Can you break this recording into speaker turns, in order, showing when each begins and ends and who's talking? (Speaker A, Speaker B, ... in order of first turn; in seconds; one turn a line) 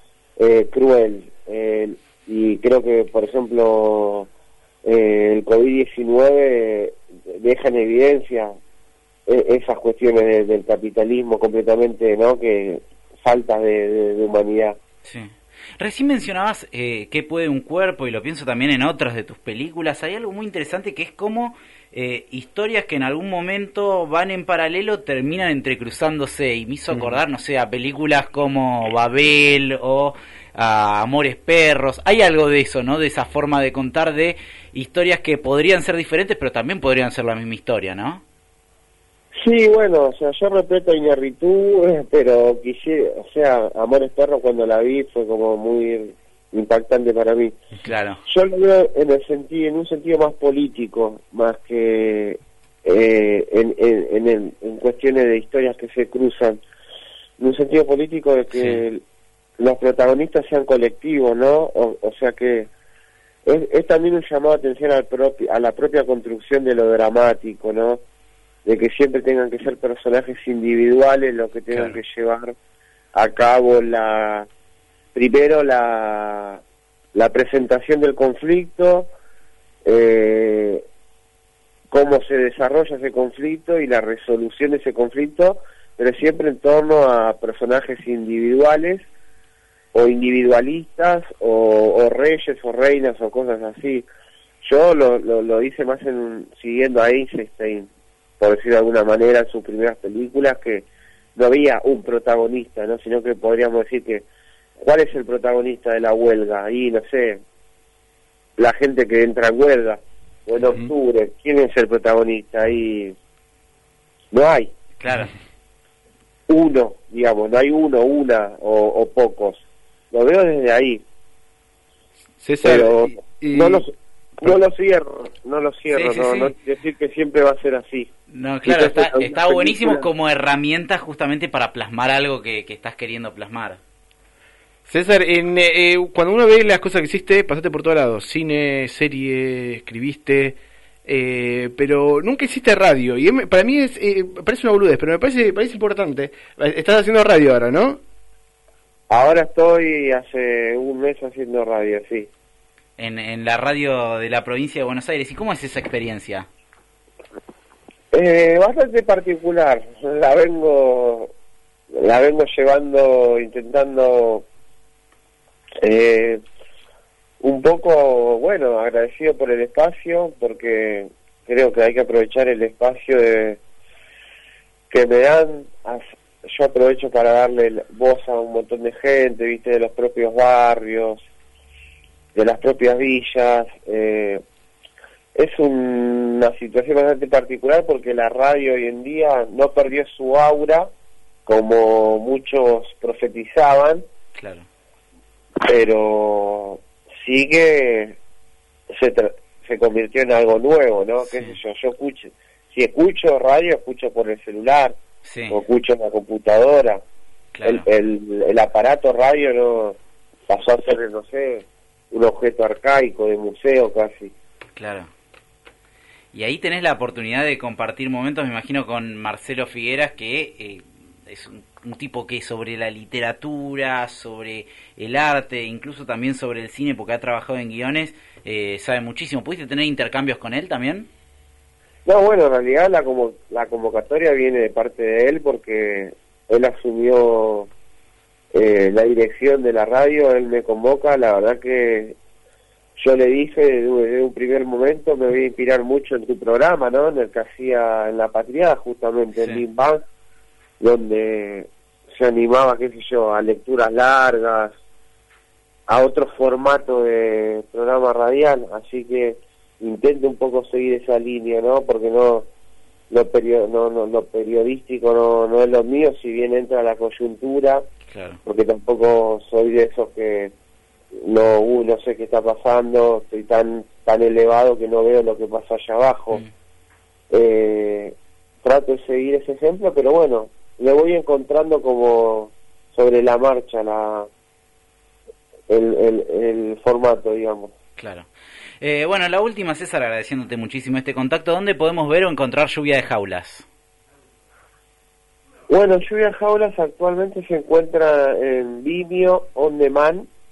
Speaker A: 0.4-4.3
Speaker A: 4.8-8.6
Speaker A: 9.3-14.8
Speaker B: 15.0-38.2
Speaker A: 39.3-47.6
Speaker B: 47.8-48.2
Speaker A: 48.2-56.6
Speaker A: 57.4-59.0
Speaker B: 58.5-58.8
Speaker A: 59.6-62.7
Speaker A: 63.5-68.0
Speaker A: 68.6-72.5
Speaker A: 73.1-74.5
Speaker A: 75.1-76.6
Speaker A: 77.1-79.1
Speaker A: 79.8-80.8
Speaker A: 81.9-89.0
Speaker A: 89.9-94.0
Speaker A: 94.6-97.9
Speaker A: 98.4-104.2
Speaker A: 104.8-107.4
Speaker A: 108.6-113.2
Speaker A: 114.3-114.7
Speaker B: 115.0-115.3
Speaker A: 116.5-121.0
Speaker C: 122.4-123.8
Speaker A: 122.6-128.1
Speaker B: 125.9-126.5
Speaker B: 128.3-133.8
Speaker A: 128.6-130.1
Speaker C: 134.9-148.0
Speaker A: 149.1-152.3
Speaker B: 153.0-156.5
Speaker A: 158.1-161.3
Speaker A: 161.9-164.4
Speaker A: 165.8-166.4
Speaker A: 167.4-173.6
Speaker A: 174.9-181.2
Speaker A: 182.3-184.4
Speaker A: 185.3-190.9
Speaker A: 191.4-194.0
Speaker B: 194.3-194.7
Speaker A: 195.6-198.2
Speaker A: 198.9-205.0
Speaker B: 201.3-201.5
Speaker B: 205.2-205.6
Speaker A: 205.5-207.0
Speaker B: 207.5-207.8
Speaker A: 207.6-210.0
Speaker A: 210.5-214.3
Speaker B: 214.8-215.1
Speaker B: 216.3-231.1
Speaker A: 232.1-237.7
Speaker A: 238.5-242.2
Speaker A: 243.0-250.0
Speaker A: 250.8-254.7
Speaker A: 255.9-262.4
Speaker A: 263.1-267.9
Speaker B: 268.1-268.4
Speaker A: 268.4-270.5
Speaker A: 271.2-276.4
Speaker A: 277.3-284.3
Speaker A: 285.7-287.7
Speaker B: 288.0-288.3
Speaker B: 288.8-293.6
Speaker A: 295.7-300.3